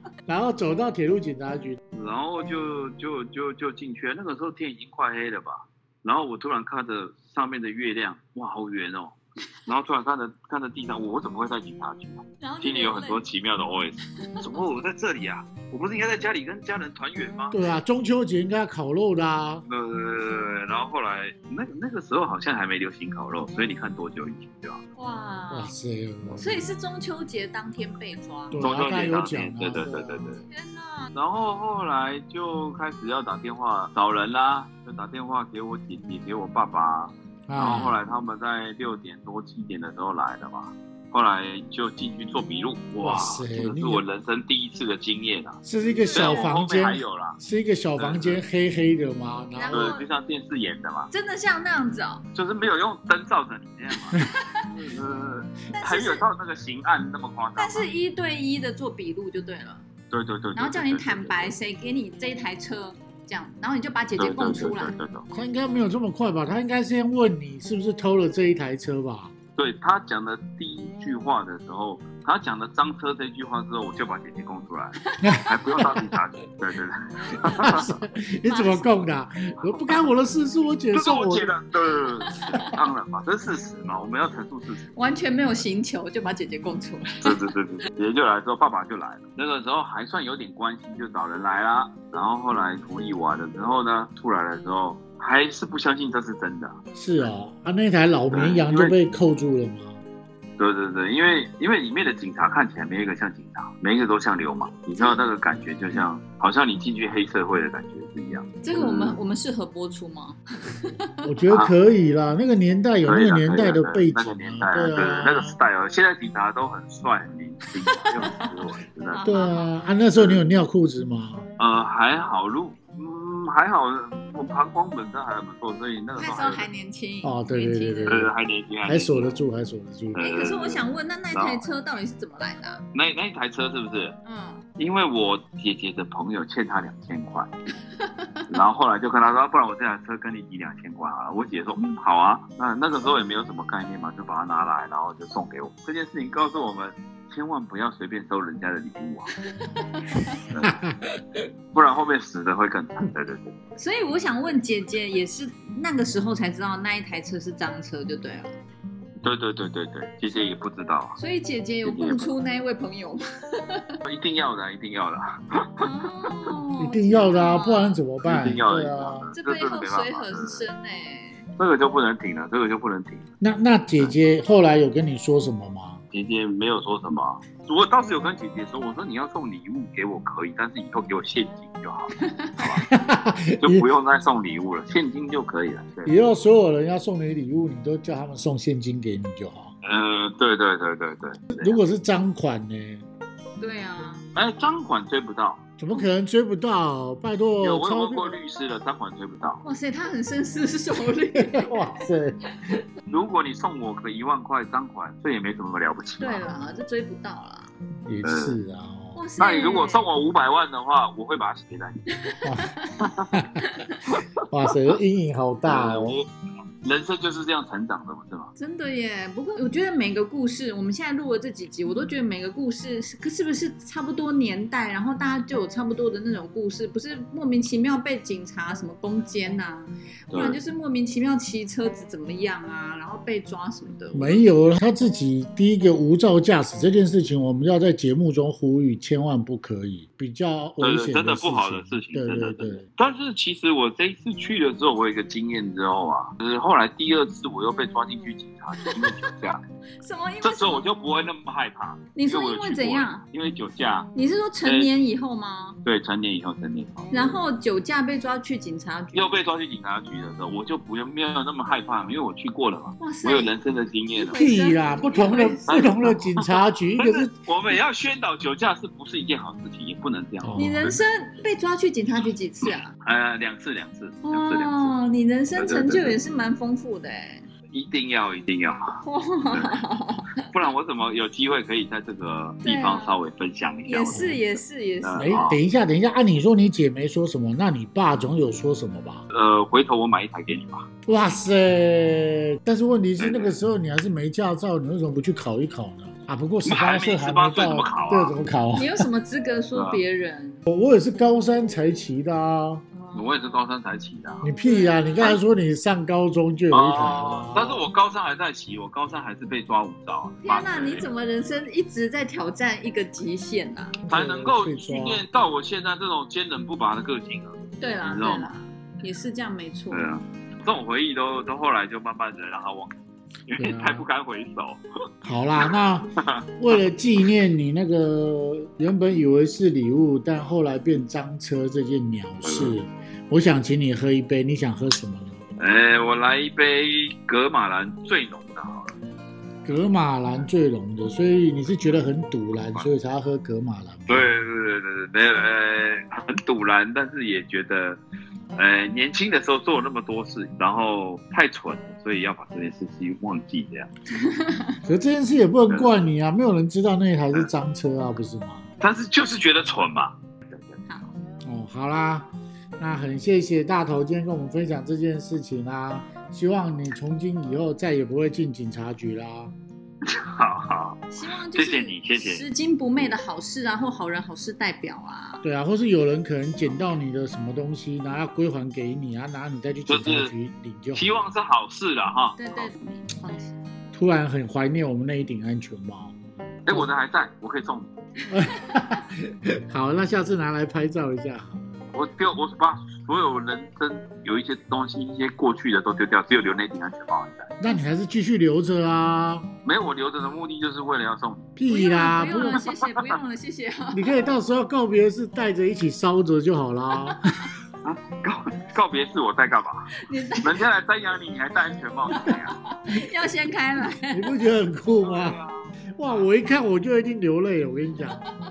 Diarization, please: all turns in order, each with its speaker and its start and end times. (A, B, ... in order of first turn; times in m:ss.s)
0:00.3-0:01.8 A
0:01.9-0:17.5 B
0:12.4-0:13.2 C
0:17.5-0:19.6 A
0:19.7-0:24.8 B
0:25.0-0:25.7 C
0:25.5-0:26.4 A
0:26.4-0:28.6 C
0:28.5-0:30.3 A
0:28.6-0:30.4 B
0:30.5-0:31.1 C
0:31.1-0:47.4 B
0:37.5-0:38.0 A
0:37.6-0:38.0 C
0:43.0-0:44.0 A
0:45.6-0:49.9 A
0:45.9-0:46.6 C
0:48.0-0:48.4 B
0:49.5-0:50.1 C
0:49.7-0:51.1 B
0:51.1-0:52.2 C
0:52.3-0:57.9 B
0:54.1-0:54.6 C
0:55.7-0:56.2 C
0:57.6-0:59.8 C
1:00.1-1:01.5 B
1:00.5-1:05.0 C
1:04.2-1:05.2 B
1:05.3-1:09.3 A
1:09.6-1:17.9 B
1:15.2-1:16.0 A
1:17.5-1:21.5 A
1:17.6-1:17.9 C
1:18.4-1:19.1 C
1:19.6-1:20.0 B
1:20.9-1:24.9 B
1:22.2-1:22.7 C
1:24.9-1:27.4 C
1:27.2-1:36.8 B
1:36.9-1:40.0 A
1:38.3-1:39.0 B
1:40.6-1:49.2 B
1:44.9-1:45.2 C
1:48.6-1:50.9 C
1:51.2-1:55.6 A
1:51.5-1:51.7 B
1:53.0-1:59.3 B
1:58.1-1:58.4 C
1:59.1-1:59.7 C
1:59.2-2:01.4 A
2:00.1-2:00.5 B
2:01.6-2:06.7 B
2:06.1-2:08.3 C
2:07.2-2:08.3 A
2:08.0-2:09.4 B
2:08.8-2:10.3 A
2:10.1-2:11.6 B
2:10.2-2:12.8 C
2:12.9-2:14.1 B
2:14.2-2:14.6 C
2:14.8-2:17.5 B
2:18.0-2:18.4 C
2:18.5-2:29.3 B
2:29.6-2:30.4 C
2:30.5-2:30.8 B
2:30.7-2:31.4 A
2:31.7-2:33.5 B
2:33.8-2:38.5 C
2:39.2-2:41.2 B
2:41.2-2:43.8 C
2:41.8-2:42.3 B
2:44.0-2:46.5 B
2:45.8-2:48.0 C
2:46.8-2:49.3 A
2:48.2-2:50.6 B
2:49.3-2:51.5 C
2:51.6-2:53.2 B
2:53.4-2:56.0 A
2:56.1-3:02.9 B
3:02.2-3:02.5 C
3:02.6-3:03.8 A
3:03.6-3:06.2 B
3:06.0-3:09.7 A
3:09.8-3:11.8 B
3:11.5-3:13.0 A
3:13.6-3:14.2 C
3:14.3-3:16.0 B
3:15.8-3:18.4 A
3:17.6-3:19.6 B
3:19.6-3:22.1 C
3:21.4-3:22.4 A
3:23.1-3:26.4 B
3:26.2-3:27.7 C
3:28.0-3:29.2 A
3:28.2-3:28.6 B
3:29.1-3:30.0 C
3:29.4-3:32.0 B
3:32.2-3:32.8 C
3:32.4-3:32.7 A
3:33.0-3:33.3 B
3:33.3-3:33.6 A
3:34.4-3:36.2 A
3:35.6-3:36.3 B
3:36.8-3:38.5 B
3:38.6-3:54.4 C
3:50.3-3:50.6 B
3:54.1-4:02.8 A
4:00.8-4:09.6 B
4:08.8-4:09.3 C
4:10.0-4:10.9 C
4:10.4-4:14.1 B
4:12.1-4:13.2 C
4:14.1-4:15.8 C
4:14.6-4:14.9 B
4:15.8-4:17.4 B
4:17.1-4:19.4 C
4:19.1-4:24.4 B
4:23.0-4:23.5 C
4:24.1-4:25.9 C
4:24.3-4:27.3 A
4:25.7-4:30.6 B
4:30.4-4:31.0 A
4:30.6-4:32.9 C
4:32.6-4:34.9 B
4:34.2-4:37.4 C
4:35.5-4:36.2 B
4:37.7-4:39.0 B
4:39.0-4:40.3 C
4:40.5-4:45.6 B
4:42.6-4:43.2 C
4:43.8-4:45.6 C
4:44.1-4:44.4 A
4:45.2-4:49.2 A
4:49.3-4:50.8 B
4:51.0-4:59.0 A
4:53.2-4:53.6 B
4:56.6-4:58.3 B
4:58.7-5:00.6 C
4:59.7-5:00.0 B
5:00.7-5:02.8 A
5:02.9-5:03.6 C
5:03.1-5:04.5 B
5:04.4-5:07.9 A
5:04.6-5:05.1 C
5:06.7-5:11.1 B
5:10.4-5:14.0 C
5:14.0-5:15.2 A
5:14.1-5:18.5 B
5:17.8-5:20.1 C
5:19.9-5:22.9 B
5:23.5-5:24.8 B
5:23.6-5:24.0 A
5:25.2-5:35.4 A
5:25.6-5:26.8 B
5:32.4-5:32.8 B
5:35.6-5:39.0 B
5:39.6-5:44.3 A
5:44.1-5:48.0 B
5:48.6-5:53.9 B
5:54.2-5:54.8 C
5:54.8-5:58.6 A
5:55.7-5:56.0 B
5:58.8-6:00.8 B
6:01.4-6:09.5 A
6:10.0-6:12.4 B
6:11.1-6:15.4 C
6:15.4-6:21.2 A
6:19.8-6:20.3 B
6:20.9-6:22.7 B
6:22.4-6:23.6 C
6:23.9-6:26.9 A
6:26.6-6:27.9 B
6:28.3-6:31.6 A
6:31.9-6:37.5 B
6:37.6-6:39.5 A
6:39.6-6:41.5 B
6:41.6-6:42.6 A
6:41.6-6:44.1 C
6:42.3-6:43.2 B
6:43.9-6:47.2 A
6:47.8-6:52.5 B
6:49.9-6:50.6 C
6:52.1-6:54.3 C
6:54.1-6:55.4 A
6:55.0-6:56.3 B
6:56.0-6:58.2 A